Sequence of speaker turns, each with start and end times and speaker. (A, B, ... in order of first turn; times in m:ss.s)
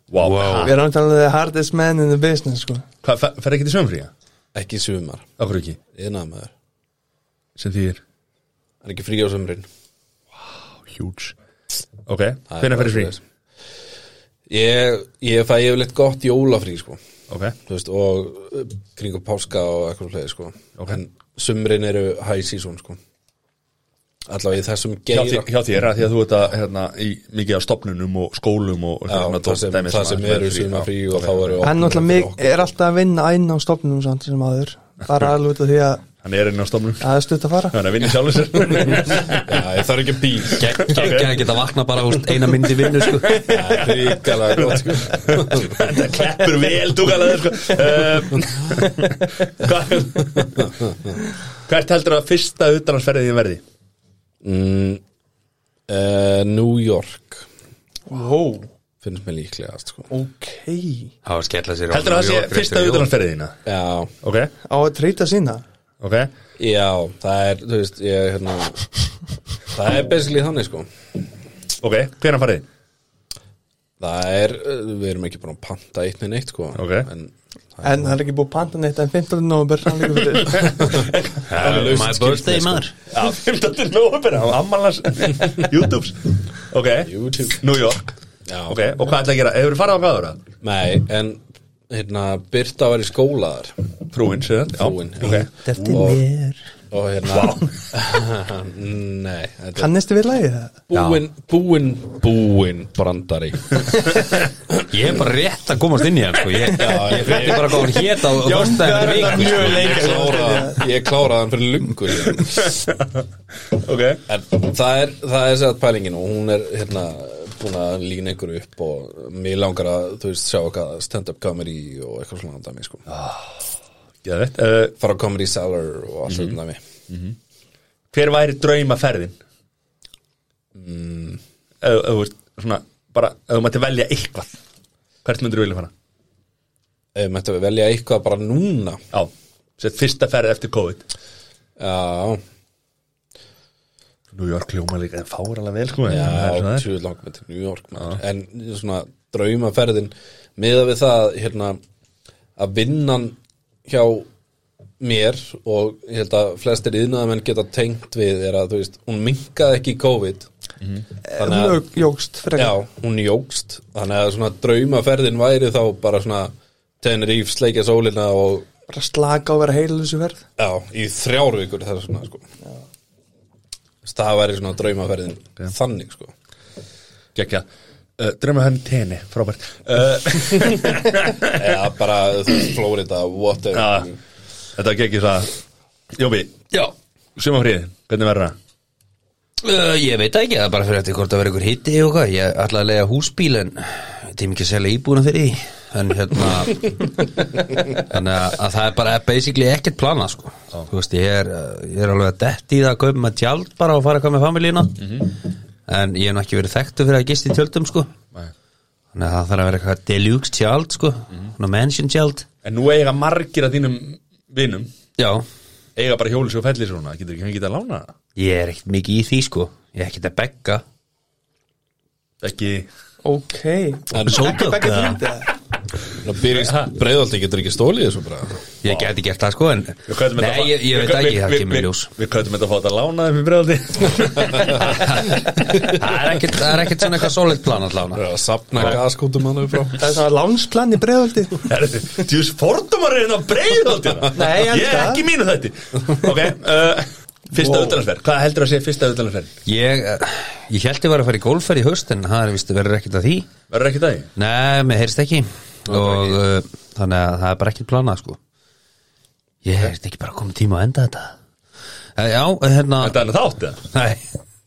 0:00.1-0:00.7 A
0:00.2-0:00.7 B
0:00.6-0:02.8 C
0:03.0-0:04.1 A
0:04.5-0:05.3 D
0:05.4-0:05.8 A
0:05.9-0:06.5 D
0:07.6-0:08.0 A
0:08.8-0:09.7 D
0:10.8-0:11.4 A
0:12.1-0:13.1 A
0:12.5-0:13.2 D
0:14.5-0:17.0 D
0:17.7-0:23.0 D
0:24.3-0:25.5 D
0:25.1-0:31.6 A
0:29.1-0:32.7 D
0:31.6-0:36.0 C
0:36.2-0:37.0 A
0:37.0-0:37.8 C
0:37.7-0:39.6 A
0:39.4-0:40.8 D
0:40.6-0:43.6 B
0:40.8-0:41.4 A
0:43.2-0:50.7 A
0:43.5-0:45.8 D
0:50.4-0:51.1 D
0:51.7-0:53.6 A
0:54.4-0:55.0 D
0:55.9-0:57.4 D
0:58.1-0:58.7 C
0:59.0-1:00.1 D
1:00.1-1:01.1 C
1:01.2-1:03.1 B
1:01.9-1:03.6 A
1:03.7-1:04.1 D
1:04.2-1:04.5 A
1:04.7-1:05.6 C
1:06.0-1:06.3 A
1:06.6-1:08.8 D
1:09.7-1:10.9 D
1:11.8-1:12.6 A
1:14.0-1:18.1 D
1:16.7-1:17.1 A
1:17.8-1:20.8 C
1:20.4-1:22.0 A
1:20.9-1:22.8 D
1:21.5-1:22.9 B
1:23.1-1:28.1 A
1:27.1-1:27.6 D
1:28.5-1:28.8 D
1:28.7-1:30.4 A
1:30.6-1:33.8 D
1:34.1-1:36.0 A
1:34.7-1:36.2 D
1:35.2-1:36.6 B
1:36.9-1:39.9 D
1:37.3-1:37.7 A
1:39.8-1:40.7 C
1:40.9-1:44.1 D
1:40.9-1:41.2 B
1:44.9-1:50.1 B
1:46.7-1:48.0 D
1:48.2-1:50.9 C
1:48.9-1:52.7 D
1:52.4-1:54.2 A
1:54.3-2:03.0 D
2:03.1-2:03.5 A
2:04.2-2:05.0 A
2:05.0-2:06.8 D
2:06.3-2:06.6 A
2:07.1-2:07.4 A
2:08.1-2:09.4 A
2:10.7-2:11.4 D
2:11.8-2:14.5 A
2:15.2-2:15.9 A
2:17.1-2:19.0 D
2:19.1-2:21.0 A
2:21.8-2:22.4 D
2:24.3-2:26.9 A
2:26.1-2:31.8 D
2:32.6-2:34.3 D
2:35.0-2:40.5 D
2:41.2-2:42.8 C
2:41.4-2:41.8 D
2:42.6-2:48.7 D
2:48.9-2:50.4 C
2:50.6-2:52.5 D
2:54.0-2:56.3 D
2:57.4-2:57.6 A
2:58.2-3:01.7 A
3:01.5-3:04.2 D
3:03.7-3:04.1 A
3:04.8-3:05.5 A
3:06.1-3:06.7 A
3:07.4-3:08.6 A
3:09.6-3:25.3 B
3:25.0-3:25.3 A
3:25.9-3:28.1 B
3:29.1-3:32.4 B
3:32.6-3:34.9 A
3:35.2-3:35.4 B
3:36.0-3:38.1 A
3:38.4-3:40.8 B
3:42.4-3:42.9 A
3:43.2-3:45.5 C
3:44.1-3:44.6 D
3:44.3-3:45.2 A
3:46.2-3:48.6 D
3:46.5-3:46.9 A
3:48.8-3:52.1 B
3:50.1-3:55.9 A
3:54.8-3:58.2 B
3:58.1-4:00.0 D
4:00.0-4:01.7 C
4:01.7-4:09.5 A
4:04.3-4:05.2 C
4:07.6-4:08.0 C
4:09.7-4:13.5 B
4:13.7-4:14.3 A
4:14.4-4:18.4 B
4:15.9-4:16.4 D
4:19.6-4:21.4 B
4:22.2-4:23.2 B
4:23.0-4:23.8 A
4:23.9-4:24.2 B